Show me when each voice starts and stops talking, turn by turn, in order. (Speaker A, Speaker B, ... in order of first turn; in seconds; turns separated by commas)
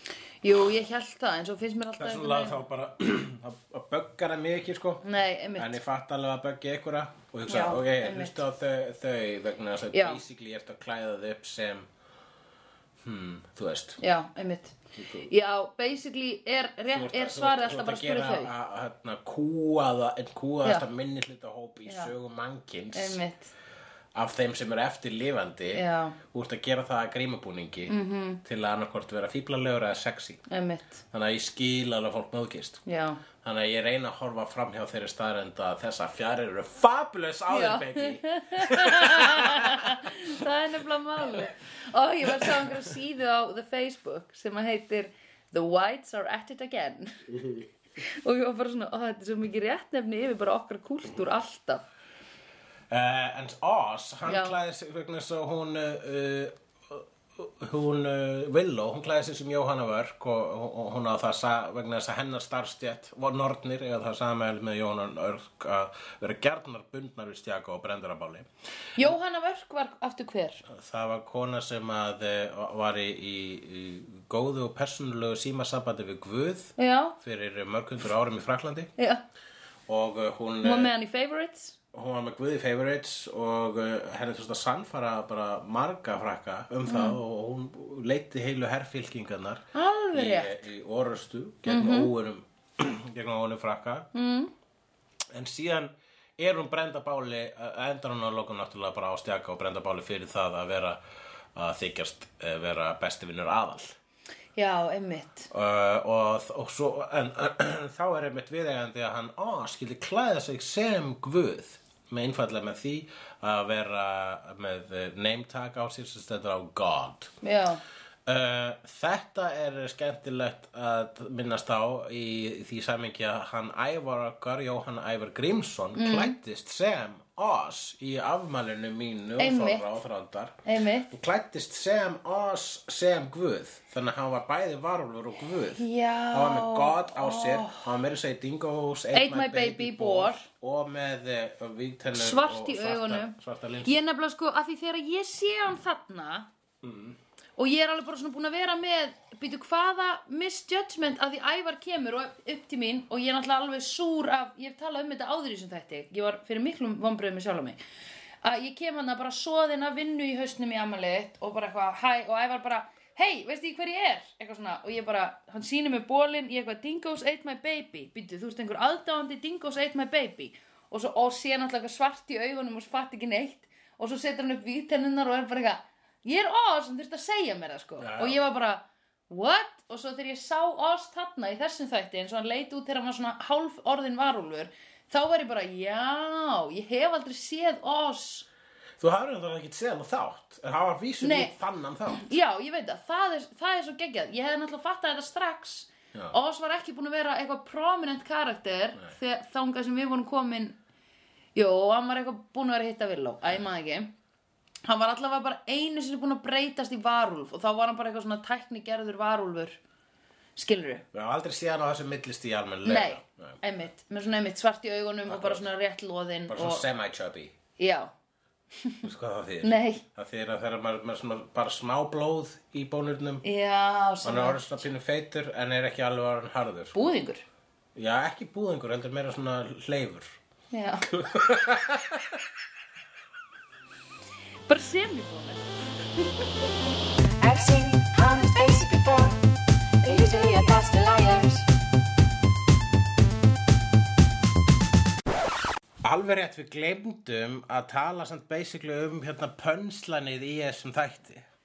Speaker A: 0.4-2.6, Speaker B: 2.0-5.0, Speaker A: 5.0-5.8, Speaker B: 5.6-11.9, Speaker A: 7.5-8.4, Speaker A: 9.9-10.2, Speaker B: 13.0-14.0, Speaker A: 14.0-18.5, Speaker B: 15.0-15.3, Speaker B: 16.9-23.2, Speaker A: 21.9-22.1, Speaker A: 22.9-23.5, Speaker B: 24.1-30.4, Speaker A: 25.7-26.2, Speaker A: 27.9-28.4, Speaker A: 30.5-31.0, Speaker B: 31.1-32.8, Speaker A: 32.9-33.2, Speaker B: 33.4-40.2, Speaker A: 37.5-47.2, Speaker B: 42.2-42.9, Speaker A: 48.0-51.9, Speaker B: 52.9-68.5, Speaker A: 54.3-54.6, Speaker A: 69.0-70.6, Speaker B: 70.7-78.9, Speaker A: 76.8-77.2, Speaker A: 79.0-79.2, Speaker B: 79.9-80.9, Speaker A: 80.6-81.8, Speaker B: 81.9-94.1, Speaker A: 86.9-87.2, Speaker A: 89.7-90.7, Speaker A: 91.7-92.1, Speaker A: 94.1-94.5, Speaker B: 95.3-101.0, Speaker B: 101.5-104.0, Speaker A: 104.6-105.5, Speaker B: 105.5-117.3, Speaker A: 117.4-117.8, Speaker B: 118.3-130.6, Speaker A: 126.0-126.3, Speaker A: 129.4-129.9, Speaker A: 130.7-131.1, Speaker B: 131.1-144.0, Speaker A: 135.8-137.9, Speaker A: 139.1-140.5, Speaker A: 142.1-146.5, Speaker B: 146.8-147.2, Speaker A: 147.6-157.8, Speaker A: 158.4-188.5, Speaker B: 178.0-178.4, Speaker B: 189.0-192.3, Speaker A: 191.2-191.5, Speaker A: 192.1-200.8, Speaker A: 201.6-204.1, Speaker A: 204.8-209.8, Speaker A: 210.6-211.1, Speaker B: 211.1-213.6, Speaker A: 212.8-216.8, Speaker B: 215.3-215.7, Speaker B: 216.5-217.6, Speaker A: 217.8-218.1, Speaker A: 218.8-219.1, Speaker B: 219.0-223.4, Speaker A: 219.6-220.0, Speaker A: 223.4-224.8, Speaker B: 224.2-227.0, Speaker A: 226.9-227.5, Speaker B: 227.9-230.4, Speaker A: 230.7-231.1, Speaker B: 231.1-232.4, Speaker A: 234.7-235.8, Speaker C: 237.4-239.4, Speaker A: 240.0-240.7, Speaker C: 240.0-241.6, Speaker B: 246.0-251.4